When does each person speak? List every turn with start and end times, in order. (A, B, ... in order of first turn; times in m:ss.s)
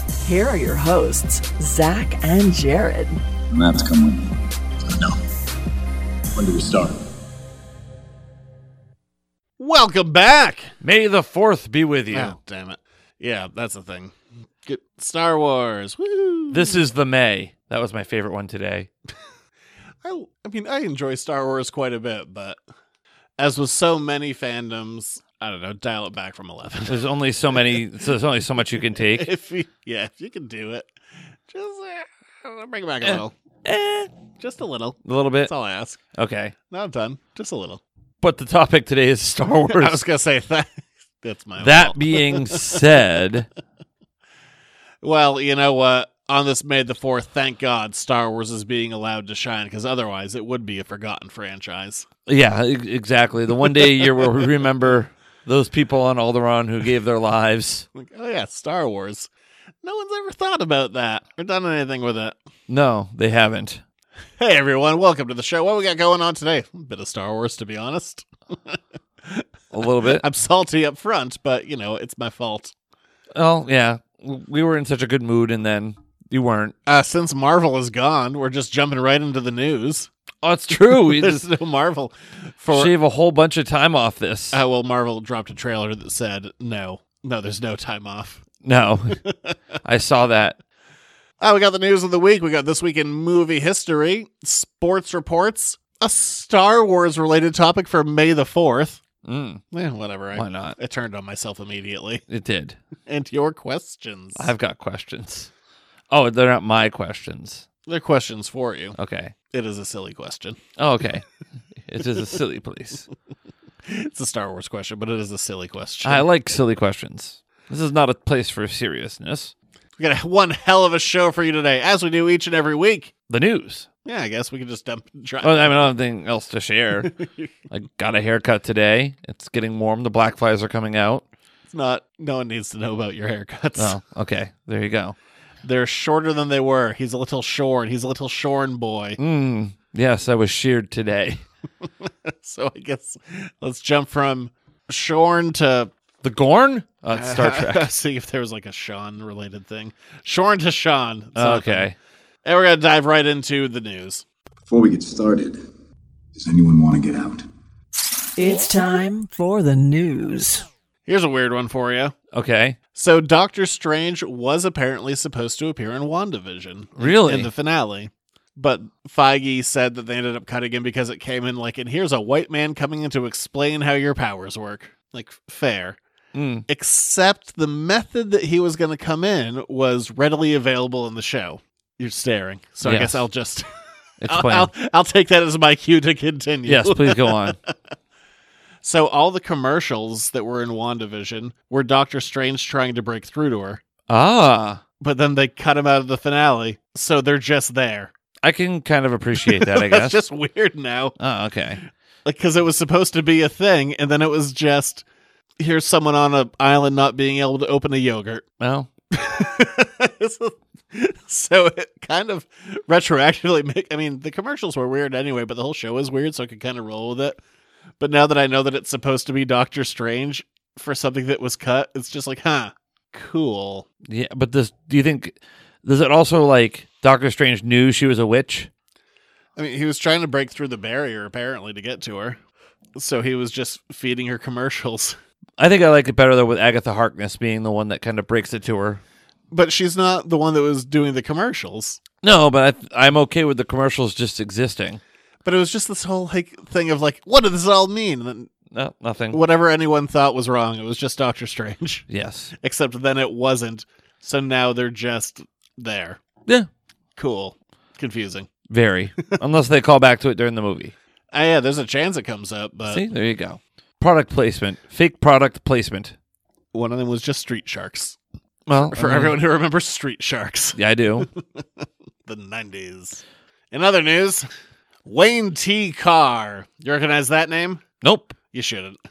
0:00.2-0:03.2 A
0:03.5-0:05.2 B
0:06.4-0:07.0 B
0:09.6-0:10.7 C
0:10.8-0:12.4 D
0:12.1-0:14.1 C
0:14.6-0:16.8 C
0:16.5-0:18.9 D
0:20.0-0:22.6 C
0:23.4-0:27.7 C
0:26.9-0:29.3 D
0:29.0-0:30.9 C
0:31.5-0:33.3 C
0:33.0-0:34.1 D
0:34.4-0:36.0 C
0:35.0-0:35.5 D
0:36.2-0:36.5 D
0:36.7-0:37.8 C
0:38.2-0:40.0 D
0:39.7-0:42.8 C
0:41.6-0:43.5 D
0:45.0-0:52.1 C
0:52.3-0:57.9 D
0:54.0-0:54.4 C
0:57.9-0:59.3 C
0:59.8-1:02.4 C
1:02.7-1:03.8 D
1:04.4-1:09.5 C
1:09.7-1:10.2 D
1:10.0-1:12.7 C
1:13.4-1:16.8 D
1:16.9-1:20.1 C
1:20.4-1:21.4 D
1:20.9-1:23.0 C
1:22.7-1:24.6 D
1:24.5-1:28.4 C
1:28.6-1:29.2 D
1:29.1-1:29.5 C
1:29.8-1:30.6 D
1:31.4-1:39.0 C
1:39.2-1:39.6 D
1:39.7-1:42.2 C
1:40.3-1:40.8 D
1:42.3-1:42.8 D
1:43.1-1:44.5 C
1:44.4-1:45.5 D
1:46.1-1:47.6 D
1:47.9-1:49.0 C
1:49.0-1:49.3 D
1:49.5-1:50.6 C
1:50.8-1:51.2 D
1:51.8-1:53.1 D
1:53.9-1:56.3 C
1:56.0-1:59.5 D
2:00.0-2:03.1 C
2:03.3-2:03.9 D
2:04.0-2:05.9 C
2:05.4-2:07.1 D
2:07.7-2:11.2 D
2:11.7-2:14.0 C
2:13.8-2:15.2 D
2:15.6-2:19.2 C
2:19.2-2:21.4 D
2:22.0-2:25.9 C
2:26.2-2:27.9 D
2:27.1-2:31.9 C
2:31.4-2:32.0 D
2:32.4-2:34.2 C
2:34.7-2:35.6 B
2:36.4-2:37.5 B
2:38.4-2:40.7 A
2:41.1-2:42.2 C
2:42.3-2:42.8 D
2:43.0-2:56.0 C
2:47.0-2:47.5 D
2:56.3-2:56.7 D
2:56.7-3:03.7 C
3:02.8-3:03.2 D
3:04.2-3:04.7 D
3:04.3-3:07.7 C
3:06.6-3:07.6 D
3:08.8-3:13.8 C
3:14.1-3:14.8 D
3:15.0-3:18.1 C
3:18.4-3:20.2 D
3:19.4-3:21.2 C
3:21.2-3:21.8 D
3:22.2-3:25.0 C
3:25.6-3:28.4 C
3:28.6-3:28.9 D
3:29.1-3:37.4 C
3:38.0-3:43.9 C
3:44.1-3:48.7 D
3:49.6-3:52.4 C
3:53.0-3:55.2 C
3:55.6-3:59.0 D
3:59.5-4:02.0 C
4:02.2-4:05.0 D
4:05.4-4:08.5 C
4:08.7-4:09.4 D
4:09.3-4:12.1 C
4:12.1-4:12.5 D
4:12.6-4:16.2 C
4:17.2-4:18.5 C
4:18.7-4:20.9 D
4:21.3-4:23.0 C
4:22.9-4:26.2 D
4:26.7-4:28.2 C
4:28.7-4:29.4 D
4:28.8-4:34.5 C
4:30.8-4:31.3 D
4:35.1-4:37.8 C
4:38.0-4:38.4 D
4:38.5-4:39.0 C